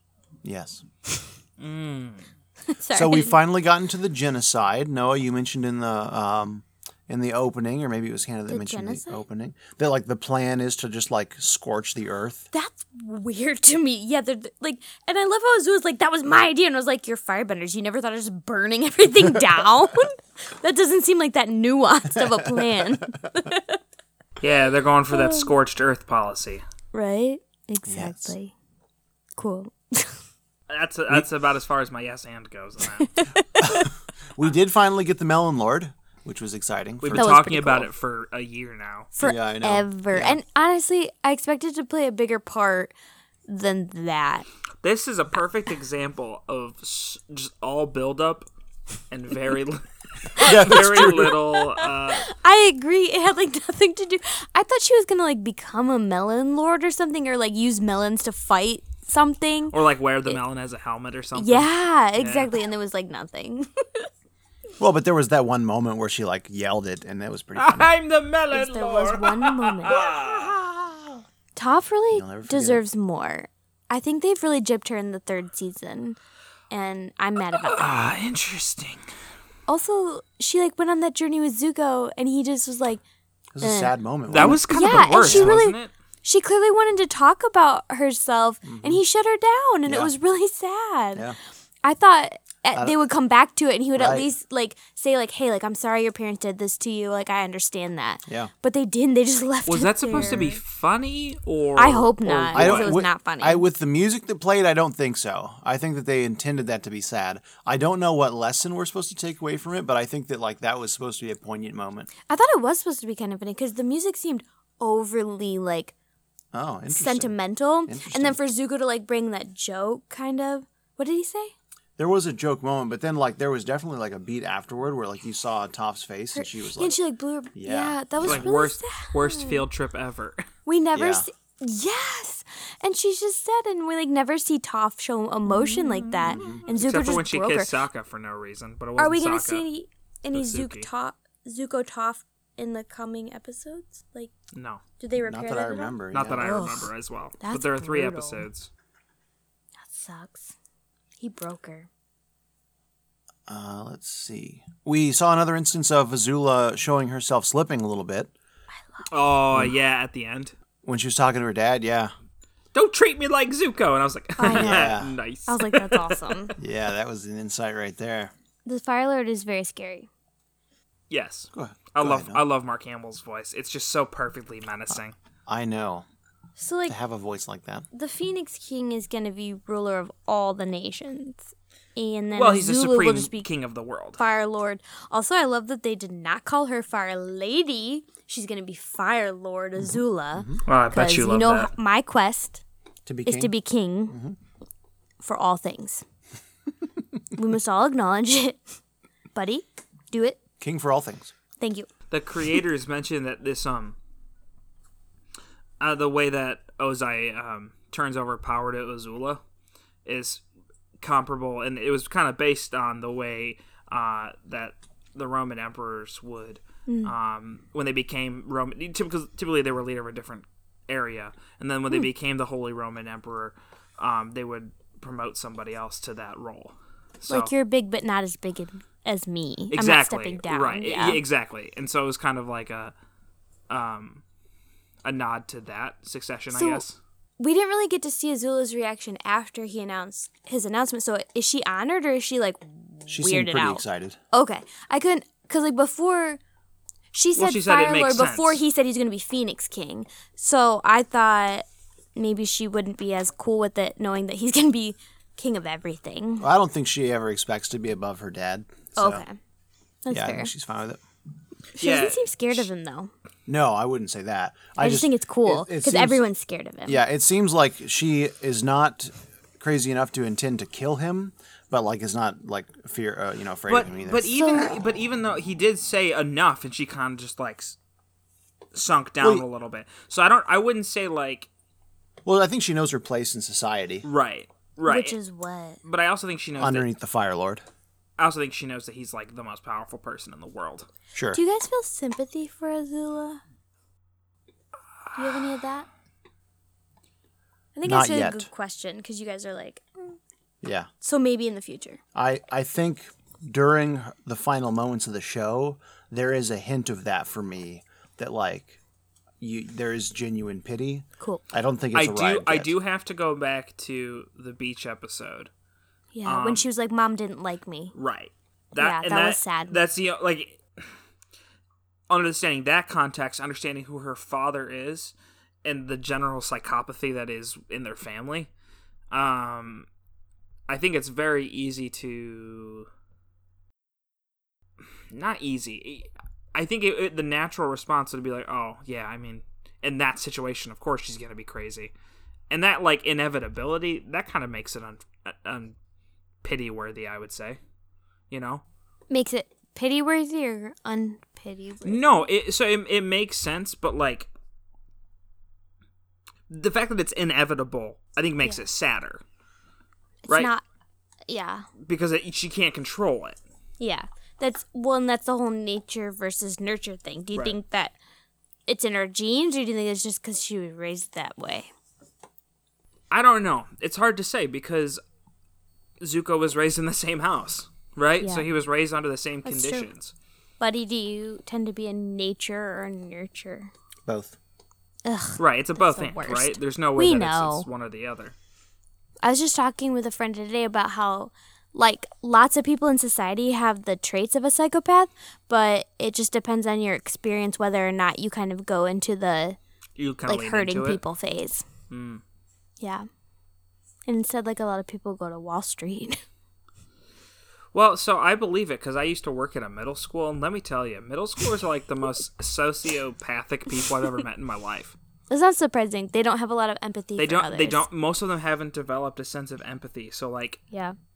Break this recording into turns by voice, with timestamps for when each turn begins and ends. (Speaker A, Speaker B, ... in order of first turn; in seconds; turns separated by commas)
Speaker A: 0.4-0.8, Speaker B: 1.6-2.3, Speaker C: 2.7-3.4, Speaker A: 2.9-12.4, Speaker C: 8.5-9.2, Speaker C: 12.5-23.8, Speaker A: 22.1-23.3, Speaker B: 24.4-26.6, Speaker C: 25.1-25.5, Speaker C: 26.9-28.5, Speaker A: 27.9-28.3, Speaker C: 29.4-30.2, Speaker B: 30.7-33.1, Speaker C: 33.0-33.9, Speaker A: 33.6-37.3, Speaker B: 37.0-39.1, Speaker C: 37.1-37.9, Speaker C: 39.1-42.9, Speaker A: 39.2-40.4, Speaker C: 43.5-44.5, Speaker B: 44.8-48.5, Speaker B: 49.1-52.3, Speaker C: 50.4-60.4, Speaker A: 50.4-51.4, Speaker B: 59.7-62.5, Speaker C: 61.4-64.1, Speaker A: 64.8-67.9, Speaker B: 67.5-71.2, Speaker C: 68.5-70.1, Speaker C: 71.5-76.2, Speaker A: 72.1-72.8, Speaker C: 76.7-77.9, Speaker B: 77.6-79.0, Speaker C: 79.7-83.0, Speaker A: 83.5-85.6, Speaker C: 83.6-91.3, Speaker B: 84.3-85.9, Speaker A: 88.6-89.0, Speaker A: 89.8-90.1, Speaker C: 91.8-100.6, Speaker A: 94.0-94.3, Speaker B: 99.7-103.0, Speaker C: 101.8-103.6, Speaker A: 102.5-112.1, Speaker C: 112.3-115.9, Speaker A: 116.5-117.3, Speaker C: 116.9-121.5, Speaker A: 117.8-118.4, Speaker A: 122.0-127.0, Speaker C: 126.3-129.7, Speaker A: 127.5-128.5, Speaker B: 128.2-130.5, Speaker C: 130.7-137.7, Speaker A: 130.9-131.2, Speaker B: 135.5-139.7, Speaker A: 136.3-136.6, Speaker C: 139.0-144.3, Speaker B: 140.3-140.9, Speaker B: 144.5-144.8, Speaker C: 145.0-148.4, Speaker A: 145.2-146.5, Speaker B: 146.1-148.7, Speaker C: 149.8-150.5, Speaker C: 151.2-151.9, Speaker A: 153.5-158.3, Speaker B: 159.1-160.5, Speaker A: 160.8-162.1, Speaker B: 162.7-166.3, Speaker C: 164.4-166.6, Speaker A: 164.5-165.2, Speaker A: 166.6-168.3, Speaker C: 168.7-170.1, Speaker B: 171.1-175.1, Speaker A: 171.5-172.4, Speaker A: 175.4-176.0, Speaker C: 176.6-176.9, Speaker A: 176.9-177.8, Speaker C: 177.9-183.5, Speaker B: 182.3-184.2, Speaker C: 184.2-192.6, Speaker A: 189.9-190.6, Speaker B: 190.7-191.7, Speaker A: 193.1-193.5, Speaker C: 193.2-194.2, Speaker A: 194.1-194.4, Speaker C: 195.2-196.0, Speaker C: 197.3-198.6, Speaker C: 199.3-200.4, Speaker A: 200.6-201.3, Speaker C: 201.6-201.9, Speaker B: 202.1-203.9, Speaker B: 205.8-209.4, Speaker B: 210.1-210.4, Speaker B: 211.0-227.5, Speaker C: 216.9-217.1, Speaker C: 227.3-231.2, Speaker B: 229.7-232.9, Speaker B: 233.7-234.2, Speaker B: 235.0-237.0, Speaker C: 236.5-236.8, Speaker C: 237.4-246.4, Speaker A: 243.1-244.2, Speaker C: 247.1-256.5, Speaker B: 247.3-248.6, Speaker A: 256.4-259.2, Speaker C: 258.9-259.4, Speaker C: 260.0-260.5, Speaker A: 260.1-261.0, Speaker B: 261.8-262.2, Speaker C: 261.8-263.1, Speaker A: 263.5-266.2, Speaker C: 264.8-267.0, Speaker A: 266.9-274.4, Speaker B: 273.7-277.8, Speaker C: 274.3-274.7, Speaker B: 278.7-281.5, Speaker A: 279.2-279.4, Speaker A: 282.2-284.1, Speaker B: 284.0-285.2, Speaker C: 284.9-285.8, Speaker B: 285.8-286.9, Speaker A: 286.6-287.6, Speaker B: 288.2-290.9, Speaker A: 291.1-291.4, Speaker C: 291.3-293.4, Speaker C: 295.1-295.9, Speaker C: 297.7-300.2, Speaker A: 297.8-298.5, Speaker A: 300.6-300.9, Speaker C: 301.0-302.0, Speaker A: 302.1-308.8, Speaker A: 309.4-312.7, Speaker B: 311.9-315.5, Speaker C: 316.1-317.9, Speaker B: 316.2-316.6, Speaker B: 317.9-320.6, Speaker C: 318.8-319.8, Speaker B: 322.1-325.1, Speaker B: 325.6-328.5, Speaker B: 329.1-329.9, Speaker B: 330.7-332.9, Speaker B: 335.1-341.9, Speaker B: 342.5-345.7, Speaker B: 346.4-347.6, Speaker B: 348.3-348.6, Speaker C: 349.1-352.2, Speaker B: 351.8-354.3, Speaker B: 356.5-359.2, Speaker C: 360.2-360.6, Speaker C: 361.3-361.7, Speaker B: 361.8-363.4, Speaker C: 363.8-367.9, Speaker C: 368.7-371.7, Speaker B: 373.1-375.0, Speaker B: 376.0-380.1, Speaker C: 378.2-378.5, Speaker C: 379.4-379.9, Speaker C: 380.6-383.7, Speaker A: 384.1-384.4, Speaker C: 385.0-387.7, Speaker B: 385.4-388.3, Speaker C: 389.2-399.6, Speaker B: 400.0-401.0, Speaker C: 400.3-401.6, Speaker B: 401.9-402.2, Speaker C: 402.8-403.1, Speaker C: 404.1-406.2, Speaker B: 407.7-414.9, Speaker C: 415.3-417.8, Speaker B: 417.2-420.6